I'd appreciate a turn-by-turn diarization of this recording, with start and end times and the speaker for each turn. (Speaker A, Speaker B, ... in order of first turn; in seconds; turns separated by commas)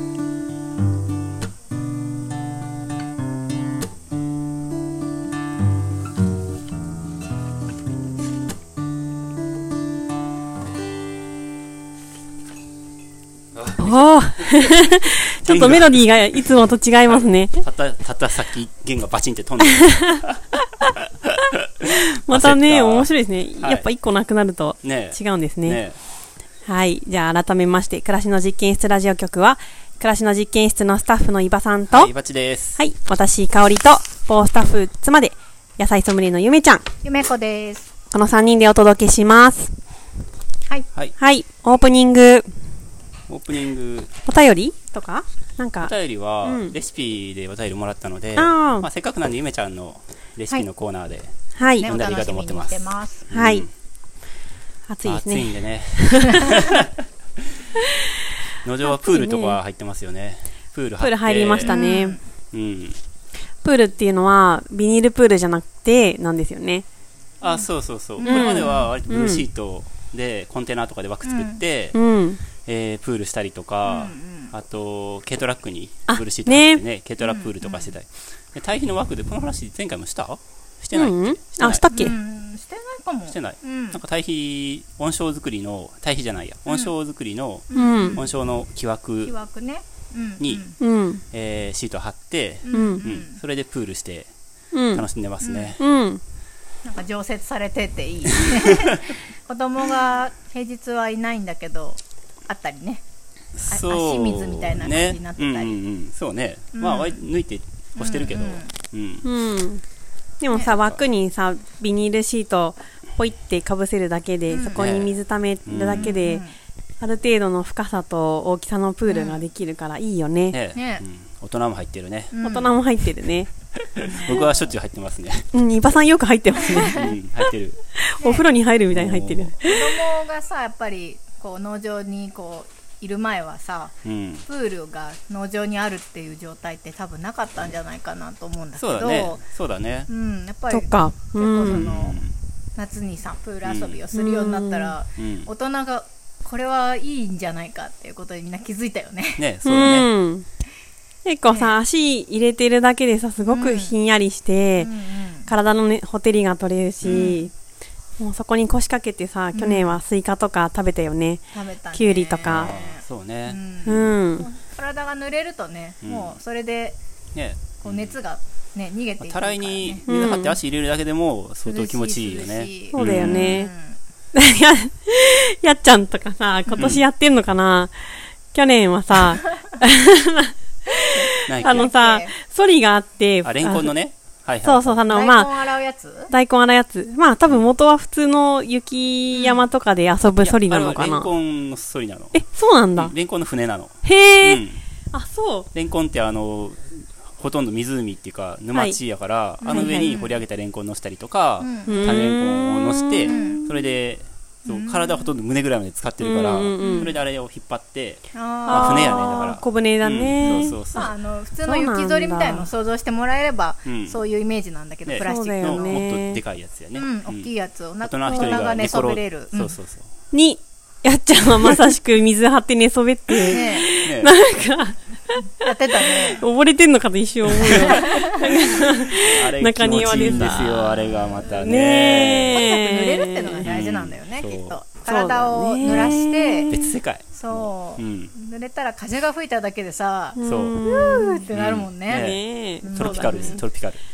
Speaker A: 13.5-14.7, Speaker B: 13.8-17.6, Speaker A: 15.4-16.5, Speaker A: 17.1-20.4, Speaker B: 19.8-20.2, Speaker A: 20.9-21.3, Speaker A: 21.8-23.9, Speaker B: 21.9-25.8, Speaker A: 24.8-26.0, Speaker B: 26.7-32.1, Speaker A: 31.9-32.8, Speaker B: 32.8-36.9, Speaker C: 37.0-37.9, Speaker B: 38.1-39.8, Speaker B: 41.2-42.5, Speaker A: 43.3-44.1, Speaker B: 44.3-46.8, Speaker A: 45.8-53.7, Speaker B: 48.4-48.9, Speaker B: 51.6-51.9, Speaker C: 51.6-53.3, Speaker B: 53.3-53.7, Speaker B: 54.9-56.6, Speaker A: 55.0-56.9, Speaker A: 58.6-61.8, Speaker B: 58.9-59.6, Speaker B: 61.0-62.2, Speaker C: 61.6-62.2, Speaker A: 62.5-63.0, Speaker B: 63.6-66.8, Speaker C: 67.4-68.9, Speaker A: 67.4-72.0, Speaker B: 68.2-69.5, Speaker C: 71.2-71.6, Speaker B: 71.9-72.4, Speaker A: 72.6-81.9, Speaker C: 73.8-74.5, Speaker B: 76.1-76.8, Speaker C: 77.2-78.0, Speaker B: 80.9-82.2, Speaker C: 81.9-84.0, Speaker A: 83.3-89.3, Speaker C: 87.7-88.3, Speaker B: 87.7-88.2, Speaker C: 89.2-90.8, Speaker A: 90.4-90.7, Speaker B: 90.8-91.2, Speaker A: 91.3-94.3, Speaker C: 92.7-93.4, Speaker B: 92.7-93.0, Speaker B: 94.7-95.1, Speaker A: 94.9-95.8, Speaker C: 95.4-95.8, Speaker B: 95.8-96.2, Speaker C: 96.8-103.0, Speaker A: 103.5-109.3, Speaker C: 103.7-105.8, Speaker C: 106.8-107.2, Speaker C: 108.0-108.8, Speaker B: 109.2-109.8, Speaker B: 110.4-116.4, Speaker A: 110.6-111.0, Speaker C: 114.5-114.9, Speaker A: 114.7-115.1, Speaker A: 115.7-116.2, Speaker C: 115.9-116.5, Speaker B: 117.0-120.6, Speaker C: 119.1-119.5, Speaker A: 120.5-122.4, Speaker C: 120.8-121.0, Speaker C: 122.3-122.8, Speaker B: 122.4-123.5, Speaker A: 124.0-125.5, Speaker C: 124.0-124.7, Speaker B: 125.5-127.2, Speaker A: 126.8-127.8, Speaker B: 128.0-129.9, Speaker C: 128.2-128.4, Speaker A: 128.9-129.6, Speaker C: 129.6-139.4, Speaker A: 134.0-134.4, Speaker A: 138.8-140.1, Speaker C: 140.1-142.2, Speaker B: 140.7-141.9, Speaker A: 141.7-142.3, Speaker C: 142.8-149.5, Speaker A: 143.6-144.0, Speaker B: 144.1-144.9, Speaker A: 145.2-145.5, Speaker A: 149.4-150.1, Speaker B: 149.6-150.5, Speaker B: 151.2-154.9, Speaker C: 151.5-151.8, Speaker C: 153.5-153.9, Speaker C: 154.8-155.5, Speaker B: 155.5-157.5, Speaker A: 157.0-157.4, Speaker C: 157.1-157.5, Speaker B: 158.2-162.7, Speaker C: 159.5-160.0, Speaker C: 161.5-167.0, Speaker A: 162.5-164.1, Speaker B: 163.8-164.5, Speaker A: 166.0-166.4, Speaker A: 167.3-168.2, Speaker C: 167.8-170.1, Speaker A: 169.2-173.6, Speaker B: 170.1-170.6, Speaker C: 171.6-174.0, Speaker B: 172.9-173.7, Speaker B: 174.3-177.9, Speaker A: 176.8-177.1, Speaker B: 178.5-184.0, Speaker C: 181.1-182.3, Speaker A: 181.5-181.9, Speaker A: 183.4-185.0, Speaker B: 184.6-185.5, Speaker C: 185.1-186.3, Speaker B: 186.3-191.3, Speaker C: 189.3-189.7, Speaker A: 190.4-192.4, Speaker B: 192.3-193.2, Speaker A: 192.9-194.8, Speaker B: 194.0-195.7, Speaker A: 195.7-211.1, Speaker B: 198.7-199.0, Speaker C: 199.6-200.4, Speaker B: 199.7-200.1, Speaker C: 201.6-202.3, Speaker B: 201.9-203.4, Speaker C: 203.3-203.8, Speaker C: 204.7-205.3, Speaker B: 206.2-207.2, Speaker C: 206.8-207.2, Speaker C: 208.3-209.5, Speaker B: 208.7-210.8, Speaker C: 210.4-216.0, Speaker B: 211.6-212.7, Speaker A: 213.8-214.2, Speaker A: 215.1-220.1, Speaker B: 215.2-216.4, Speaker C: 216.9-219.8, Speaker B: 218.3-218.6, Speaker B: 220.3-225.6, Speaker A: 223.5-224.4, Speaker C: 223.5-223.9, Speaker C: 225.6-226.4, Speaker B: 226.3-233.7, Speaker C: 227.7-228.3, Speaker A: 229.2-232.7, Speaker C: 231.1-231.7, Speaker C: 232.5-236.7, Speaker A: 233.7-234.8, Speaker B: 235.1-237.0, Speaker A: 235.8-236.1, Speaker A: 236.7-238.3, Speaker C: 237.3-243.6, Speaker B: 240.4-241.5, Speaker A: 240.4-240.8, Speaker A: 241.5-242.4, Speaker B: 242.1-243.6, Speaker A: 242.9-244.0